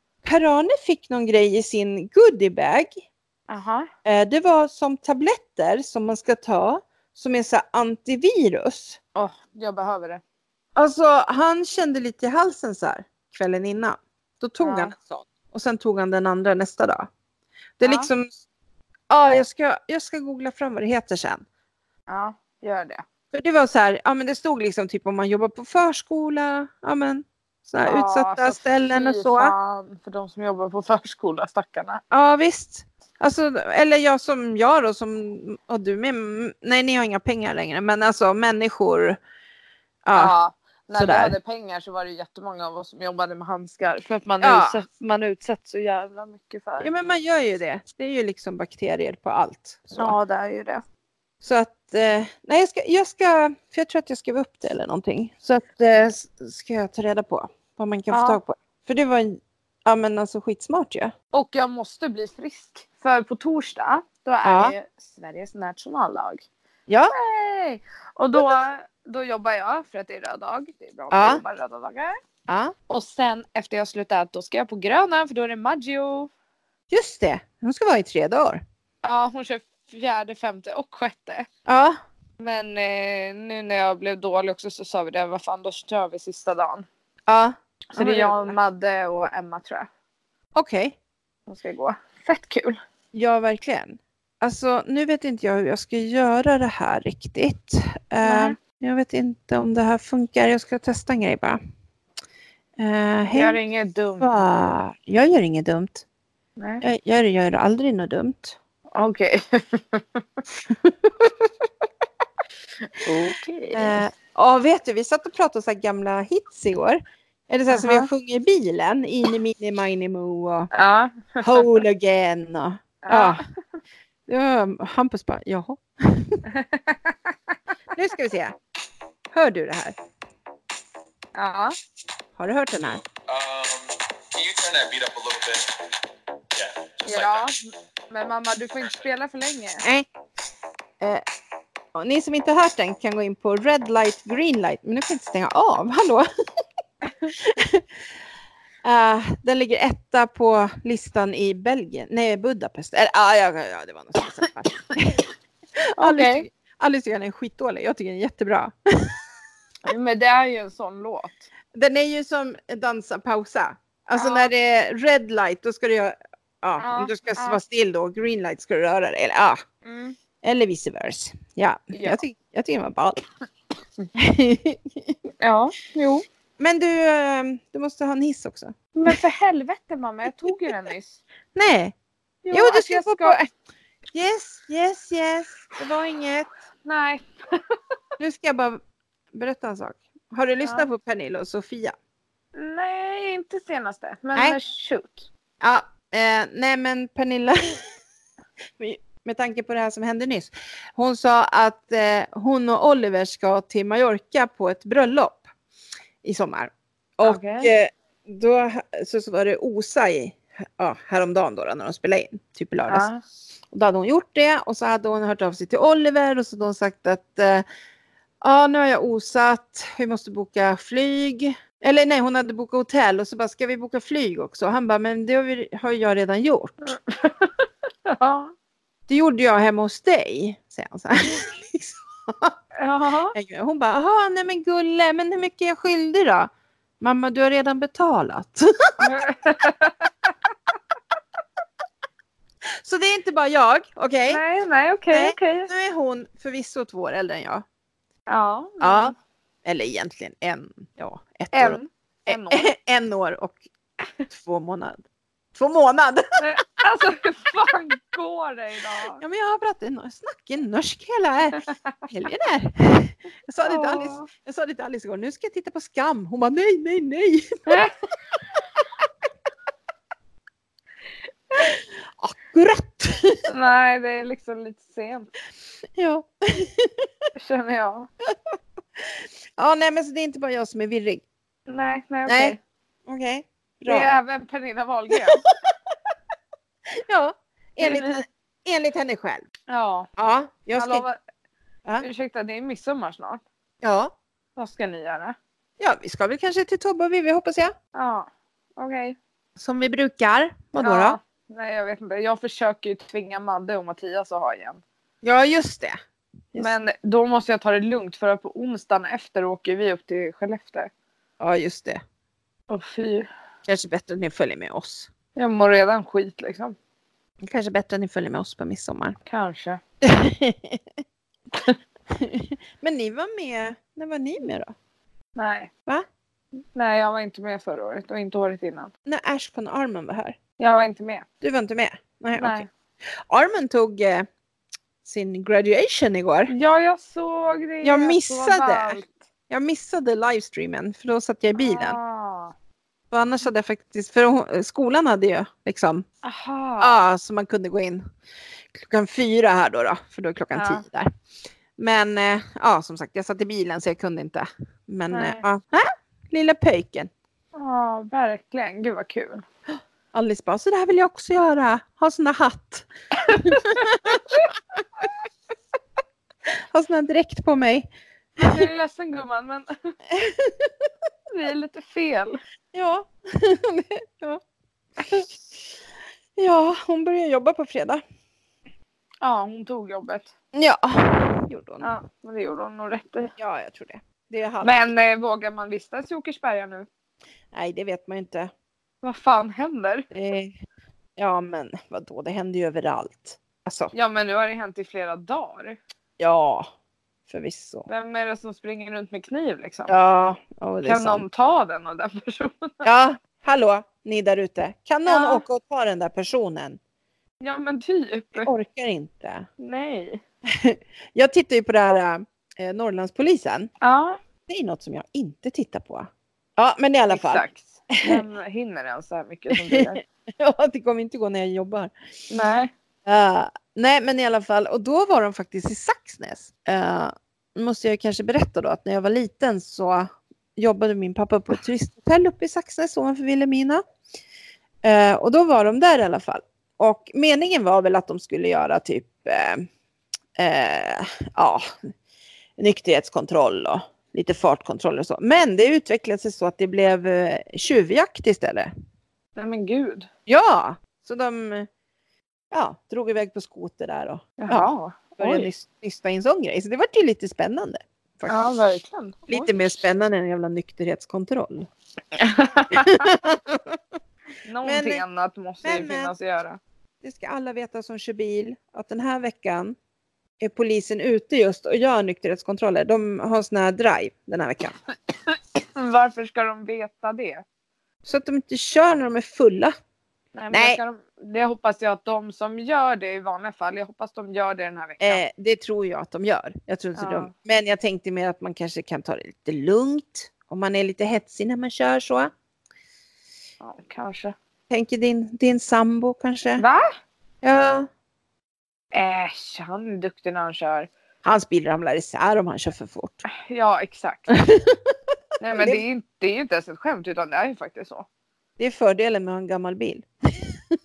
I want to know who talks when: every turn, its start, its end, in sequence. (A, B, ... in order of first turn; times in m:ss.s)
0:00.2-0:03.0 A
0:03.5-0:03.9 B
0:04.0-0:09.0 A
0:09.1-0:10.2 B
0:10.8-0:17.1 A
0:14.6-0:15.0 B
0:17.8-0:18.4 A
0:17.8-0:18.1 B
0:19.1-0:21.4 A
0:22.1-0:23.0 B
0:23.3-0:29.5 A
0:27.8-0:32.0 B
0:32.1-0:39.2 A
0:40.0-0:40.3 A
0:40.1-0:46.9 B
0:40.9-0:41.4 A
0:44.4-0:44.8 A
0:46.8-0:50.2 A
0:50.0-0:50.8 B
0:51.4-1:01.1 A
0:58.1-0:58.4 B
1:01.3-1:06.4 B
1:04.4-1:04.8 A
1:06.9-1:07.1 A
1:07.1-1:12.2 B
1:11.1-1:11.4 A
1:12.5-1:12.7 A
1:12.9-1:16.3 B
1:16.9-1:18.6 A
1:19.0-1:21.5 B
1:21.7-1:22.0 A
1:22.4-1:26.9 B
1:27.3-1:28.6 A
1:28.0-1:29.9 B
1:30.6-1:31.0 A
1:31.5-1:32.8 B
1:33.1-1:41.6 A
1:38.2-1:38.6 B
1:42.8-1:43.6 A
1:43.3-1:44.4 B
1:44.2-1:46.0 A
1:46.6-1:46.8 B
1:46.8-1:48.6 A
1:48.9-1:50.2 B
1:50.7-1:51.3 A
1:52.9-1:54.0 B
1:53.7-2:00.7 A
1:57.7-1:58.1 B
2:00.7-2:01.8 B
2:01.4-2:03.4 A
2:03.0-2:03.5 B
2:04.3-2:06.4 A
2:06.5-2:07.3 B
2:08.0-2:08.6 A
2:09.3-2:10.0 A
2:11.4-2:11.7 B
2:12.4-2:13.0 A
2:12.9-2:15.8 C
2:16.6-2:17.5 C
2:17.0-2:17.6 B
2:18.1-2:19.8 B
2:21.9-2:26.3 A
2:27.3-2:27.9 A
2:28.8-2:35.2 A
2:36.0-2:39.2 A
2:36.0-2:36.5 B
2:39.8-2:41.5 B
2:41.7-2:49.6 A
2:44.2-2:44.5 B
2:46.8-2:47.6 B
2:49.8-2:50.2 B
2:50.4-2:53.2 A
2:51.9-2:52.2 B
2:54.2-2:55.1 A
2:55.4-2:56.2 B
2:56.6-2:59.1 A
2:59.0-3:01.2 B
3:01.6-3:01.9 A
3:02.5-3:03.5 A
3:02.5-3:03.4 B
3:04.1-3:06.5 A
3:06.8-3:07.6 B
3:08.2-3:08.8 A
3:09.3-3:12.0 A
3:10.6-3:10.9 B
3:12.6-3:15.3 B
3:15.6-3:17.8 A
3:18.8-3:25.4 A
3:26.2-3:33.1 A
3:27.2-3:27.7 B
3:32.9-3:33.2 B
3:33.7-3:37.6 A
3:38.4-3:47.0 A
3:47.1-3:47.5 B
3:48.1-3:48.5 B
3:49.1-3:52.5 A
3:52.8-3:53.4 B
3:53.3-3:58.7 A
3:59.0-4:00.1 B
4:02.8-4:04.4 A
4:04.3-4:05.7 B
4:05.1-4:07.6 A
4:08.3-4:09.1 B
4:08.8-4:09.1 A
4:09.6-4:13.6 A
4:11.5-4:12.7 B
4:14.3-4:15.0 A
4:15.5-4:16.3 A
4:16.4-4:19.2 B
4:19.2-4:27.6 A
4:23.6-4:24.3 B
4:27.7-4:27.9 B
4:32.2-4:33.4 A
4:33.5-4:35.3 B
4:36.0-4:37.1 A
4:37.4-4:38.1 B
4:39.6-4:41.2 A
4:41.7-4:42.6 B
4:42.3-4:44.2 A
4:43.9-4:45.4 B
4:46.9-4:49.5 A
4:47.8-4:48.2 B
4:49.7-4:50.1 B
4:50.2-4:51.0 A
4:50.8-4:51.2 B
4:52.0-4:53.4 B
4:53.8-4:54.1 A
4:54.6-4:55.4 B
4:55.8-4:57.8 A
4:58.0-4:59.2 B
4:59.6-5:01.2 A
5:00.8-5:04.8 B
5:05.2-5:06.0 A
5:06.6-5:10.9 B
5:11.4-5:12.0 A
5:12.7-5:13.3 B
5:13.7-5:15.1 A
5:15.4-5:16.8 B
5:17.4-5:19.2 A
5:19.3-5:19.8 B
5:20.0-5:20.8 A
5:22.1-5:24.7 A
5:25.4-5:25.7 B
5:26.8-5:28.9 B
5:29.1-5:30.4 A
5:30.6-5:31.3 B
5:31.4-5:32.6 A
5:32.4-5:32.7 B
5:33.3-5:34.3 A
5:35.0-5:36.5 A
5:36.5-5:39.2 B
5:37.8-5:42.0 A
5:41.6-5:42.5 B
5:43.1-5:46.0 A
5:46.2-5:47.0 B
5:46.8-5:48.0 A
5:48.7-5:51.1 A
5:50.5-5:50.8 B
5:51.8-5:57.1 A
5:55.1-5:55.4 B
5:57.6-5:59.4 B
6:00.1-6:04.2 A
6:03.2-6:04.5 B
6:06.7-6:07.9 A
6:08.4-6:09.7 B
6:10.1-6:10.7 A
6:11.3-6:12.4 B
6:12.7-6:14.4 A
6:15.0-6:15.3 A
6:16.4-6:18.0 A
6:19.2-6:20.3 B
6:20.5-6:21.9 A
6:21.8-6:23.3 B
6:23.4-6:24.9 A
6:24.6-6:26.9 B
6:27.5-6:28.5 A
6:29.0-6:30.1 B
6:30.1-6:30.5 A
6:31.2-6:33.9 A
6:33.9-6:35.8 B
6:36.2-6:36.7 A
6:37.3-6:37.9 A
6:37.9-6:39.9 B
6:39.9-6:41.2 A
6:40.8-6:42.7 B
6:42.8-6:46.8 A
6:45.1-6:45.4 B
6:47.4-6:48.5 B
6:48.4-6:49.5 A
6:49.6-6:50.2 B
6:50.5-6:53.7 A
6:53.8-6:54.2 B
6:54.5-6:57.4 A
6:57.1-7:00.0 B
6:58.0-6:58.2 A
6:59.5-7:01.9 A
7:02.3-7:02.7 B
7:03.0-7:13.8 A
7:14.8-7:19.7 A
7:20.4-7:21.6 A
7:22.6-7:28.7 A
7:29.4-7:30.1 B
7:30.3-7:31.7 A
7:32.5-7:38.4 A
7:34.4-7:35.5 B
7:38.3-7:39.6 B
7:39.3-7:41.7 A
7:42.2-7:43.1 B
7:42.7-7:43.8 A
7:44.4-7:46.6 B
7:44.6-7:45.0 A
7:45.6-7:46.1 A
7:47.0-7:49.8 A
7:50.4-7:54.8 A
7:55.3-7:57.4 B
7:58.0-7:59.8 A
8:00.4-8:05.2 B
8:00.5-8:00.8 A
8:05.0-8:12.3 A
8:07.0-8:07.3 B
8:13.6-8:14.3 B
8:14.7-8:16.6 A
8:16.6-8:16.9 B
8:17.4-8:17.9 A
8:18.9-8:20.9 B
8:21.2-8:23.2 A
8:23.3-8:24.4 B
8:24.3-8:24.8 A
8:25.4-8:28.1 B
8:25.6-8:25.8 A
8:28.6-8:30.6 A